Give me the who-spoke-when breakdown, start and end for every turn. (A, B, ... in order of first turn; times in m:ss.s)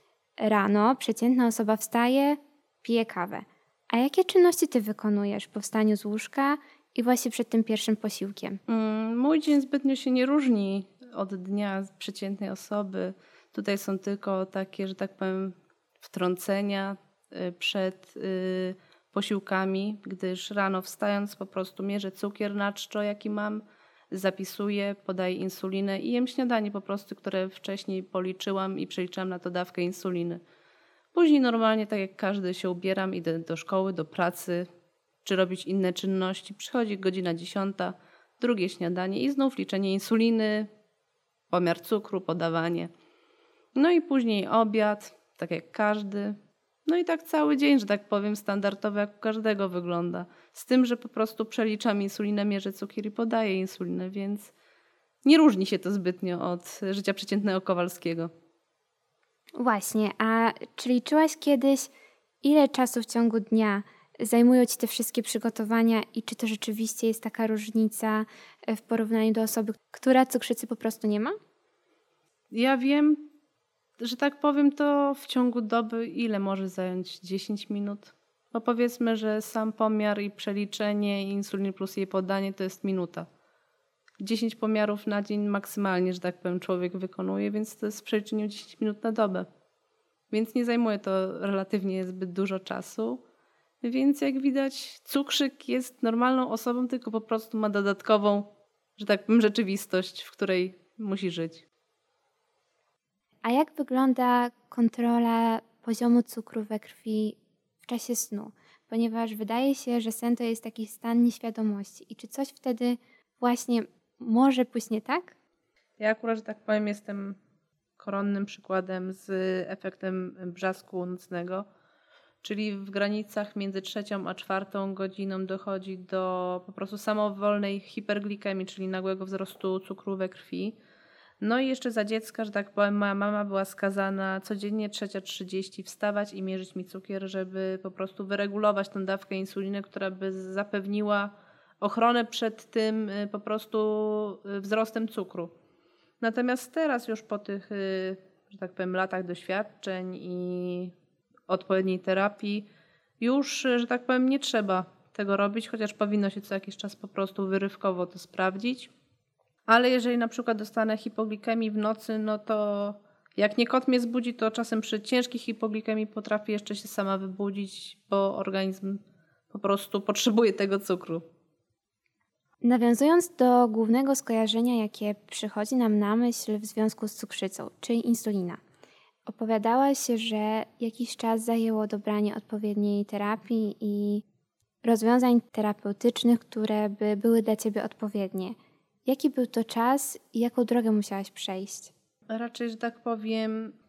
0:00.4-0:08.6 A
0:08.7-0:30.4 B
0:31.1-0:34.6 B
0:35.2-0:40.7 B
0:41.5-0:42.9 B
0:43.7-0:54.5 B
0:55.2-0:58.3 B
0:59.6-1:01.9 A
1:02.4-1:11.4 A
1:12.5-1:13.2 B
1:14.0-1:23.3 B
1:24.2-1:29.5 B
1:30.3-1:33.2 B
1:33.8-1:41.6 B
1:43.4-1:55.3 A
1:56.0-1:57.4 B
1:58.0-2:01.6 B
2:02.4-2:10.8 B
2:11.4-2:25.5 B
2:26.2-2:30.9 B
2:31.5-2:32.6 B
2:33.2-2:38.9 B
2:39.7-2:51.2 B
2:52.6-2:58.6 A
2:59.2-3:04.2 A
3:04.8-3:11.9 A
3:12.3-3:13.7 B